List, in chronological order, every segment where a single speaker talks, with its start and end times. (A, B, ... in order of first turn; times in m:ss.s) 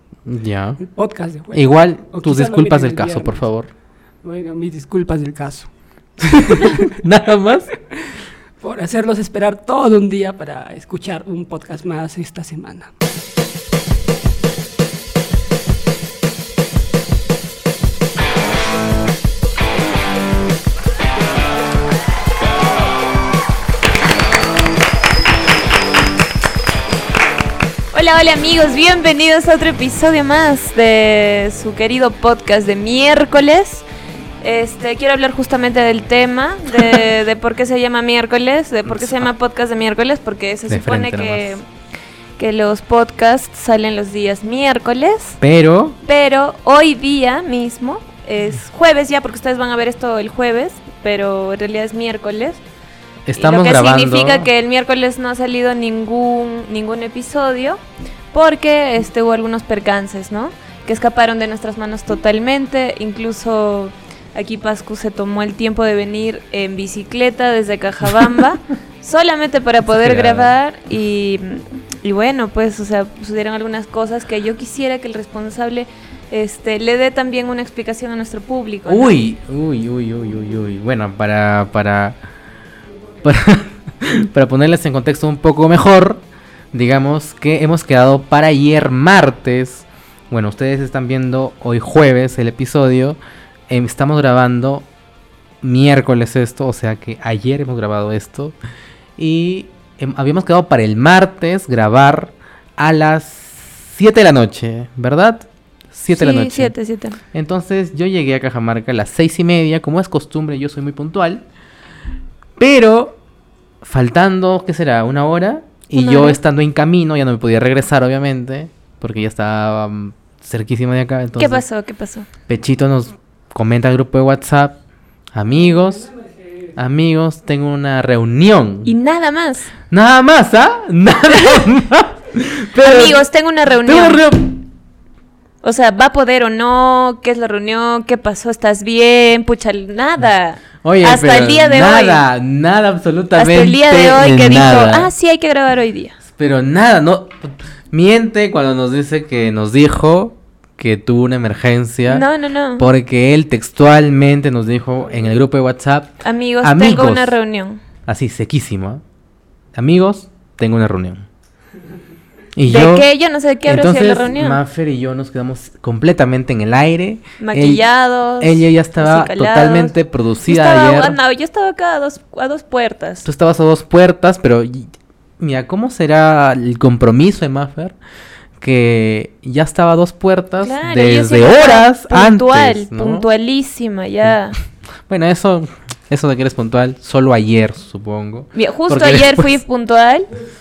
0:00.3-0:00.8 A
0:00.8-0:03.4 B
0:01.5-0:03.7 A
0:04.2-0:05.7 B
0:06.2-0:07.7 A
0:06.5-0:06.8 B
0:08.6-0:13.0 B
0:27.9-0:33.8 C
0:34.4-0:41.6 C
0:38.9-0:39.2 A
0:40.7-0:41.6 A
0:42.4-0:45.4 C
0:45.4-0:46.0 A
0:46.1-0:52.6 C
0:53.3-0:54.5 A
0:53.4-0:57.8 C
0:58.3-1:19.2 C
1:09.9-1:10.6 A
1:18.8-1:22.2 A
1:23.2-1:33.2 A
1:33.7-1:34.9 A
1:35.6-1:38.6 A
1:39.2-1:46.7 A
1:46.2-1:47.2 C
1:47.3-1:51.4 A
1:52.6-1:53.2 A
1:53.8-2:01.6 A
1:56.0-1:56.4 C
2:01.4-2:02.3 C
2:02.5-2:04.8 A
2:05.3-2:06.1 A
2:05.8-2:06.7 B
2:06.8-2:08.9 A
2:08.9-2:09.7 C
2:09.9-2:13.2 A
2:11.3-2:11.6 C
2:12.8-2:14.2 C
2:13.8-2:14.5 A
2:15.6-2:22.2 C
2:20.8-2:25.1 A
2:23.4-2:26.2 C
2:26.2-2:32.3 A
2:32.1-2:32.9 C
2:32.8-2:37.4 A
2:36.2-2:37.8 C
2:38.1-2:39.0 A
2:39.8-2:41.3 A
2:42.6-2:43.1 A
2:42.6-2:44.6 C
2:43.6-2:47.8 A
2:47.4-2:50.0 C
2:48.4-2:51.2 A
2:50.5-2:53.3 C
2:53.2-2:58.0 A
2:58.6-3:03.3 A
3:00.6-3:04.6 C
3:05.1-3:09.6 A
3:08.6-3:10.3 C